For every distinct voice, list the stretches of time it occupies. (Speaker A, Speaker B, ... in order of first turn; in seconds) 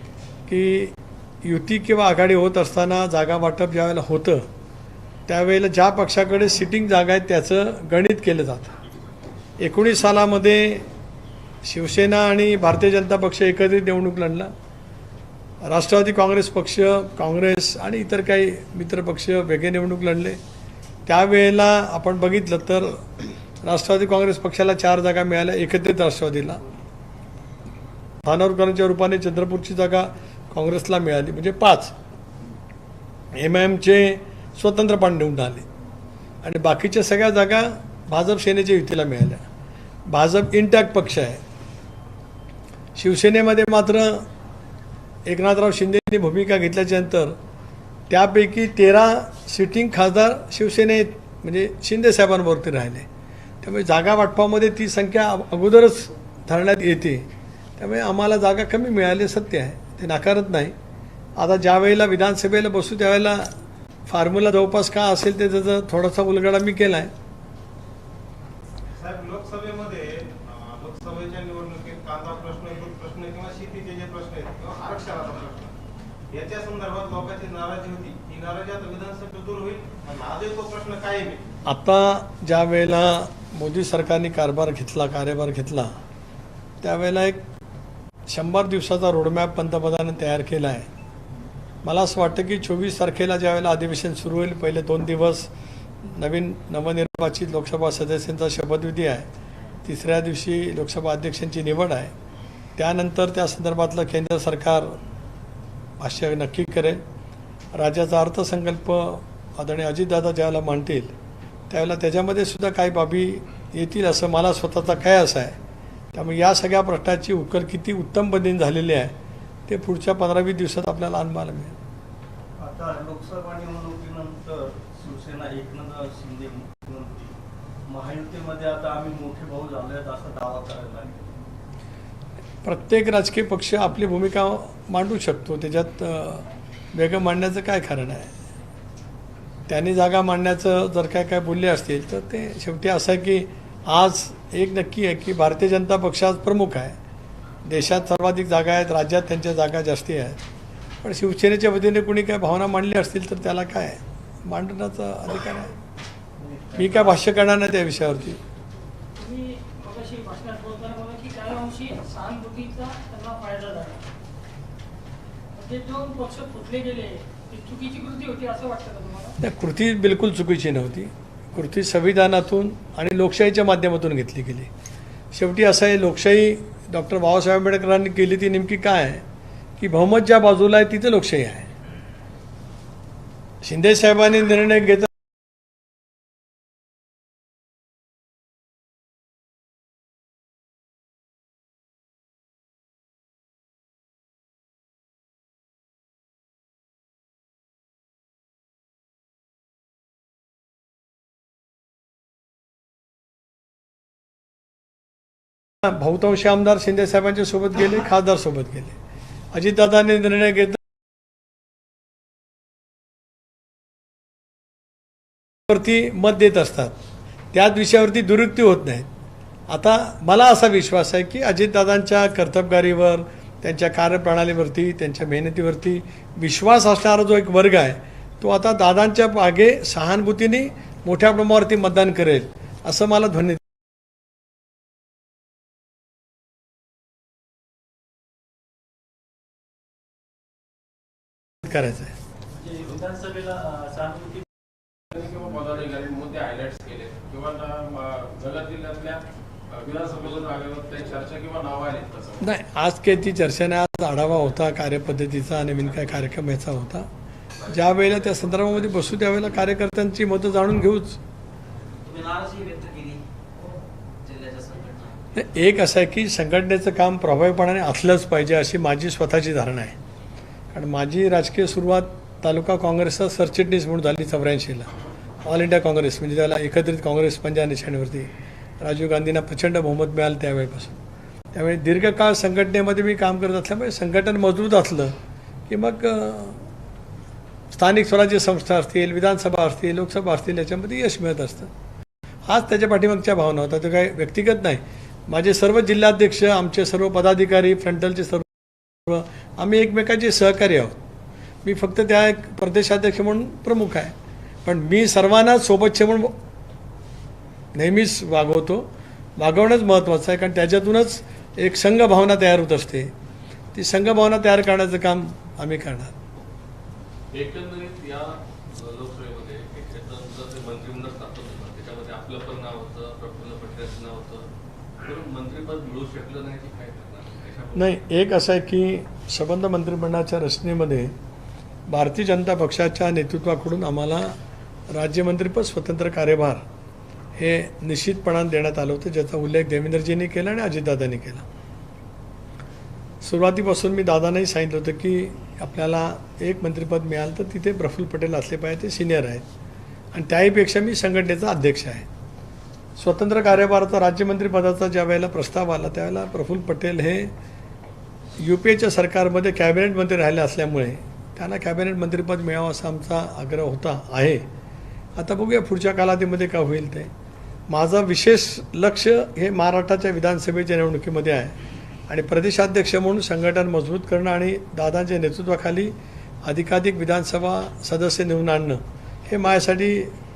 Speaker A: 0.5-4.4, 5.3-8.7, 9.6-10.9, 11.6-14.5, 15.6-20.4, 21.1-23.1, 23.6-26.6, 28.2-31.9, 33.3-35.6, 36.4-39.4, 40.1-41.4, 43.0-44.2, 45.2-47.4, 48.1-53.1, 53.6-60.7, 61.4-63.5, 64.1-67.1, 81.7-85.9, 86.8-87.4, 88.3-90.9, 91.8-95.5, 96.0-99.3, 99.8-102.1, 102.8-105.0, 106.0-107.0, 107.7-111.1, 111.7-115.5, 116.1-119.1, 119.7-121.8, 132.6-138.3, 139.7-146.9, 147.6-150.4, 151.0-155.7, 156.8-158.4, 169.4-174.7, 175.3-179.2, 179.8-181.7, 183.6-185.1, 205.8-208.9, 209.5-210.8, 215.7-216.9, 217.5-219.1, 219.7-233.6, 241.6-242.1, 252.4-257.1, 257.7-261.2, 265.3-270.0, 270.7-274.9, 275.4-281.0, 281.5-285.1, 285.7-286.6, 287.7-291.7, 292.5-300.9, 301.6-304.1, 304.6-306.3, 307.7-313.1, 313.7-316.1, 327.7-331.1, 331.9-334.3, 334.9-336.6, 337.4-341.4, 343.2-349.4, 350.1-352.1, 352.9-357.3, 358.4-364.4, 365.2-367.1, 367.7-371.5, 372.1-375.9, 376.4-380.1
Speaker B: 68.9-75.7, 76.3-81.4
Speaker C: 122.6-127.3, 127.9-131.3, 156.4-157.2
Speaker D: 159.2-164.0, 165.5-169.3
Speaker E: 242.6-244.4, 262.0-263.2, 264.2-265.2
Speaker F: 245.1-252.5
Speaker G: 317.3-324.5, 325.0-328.0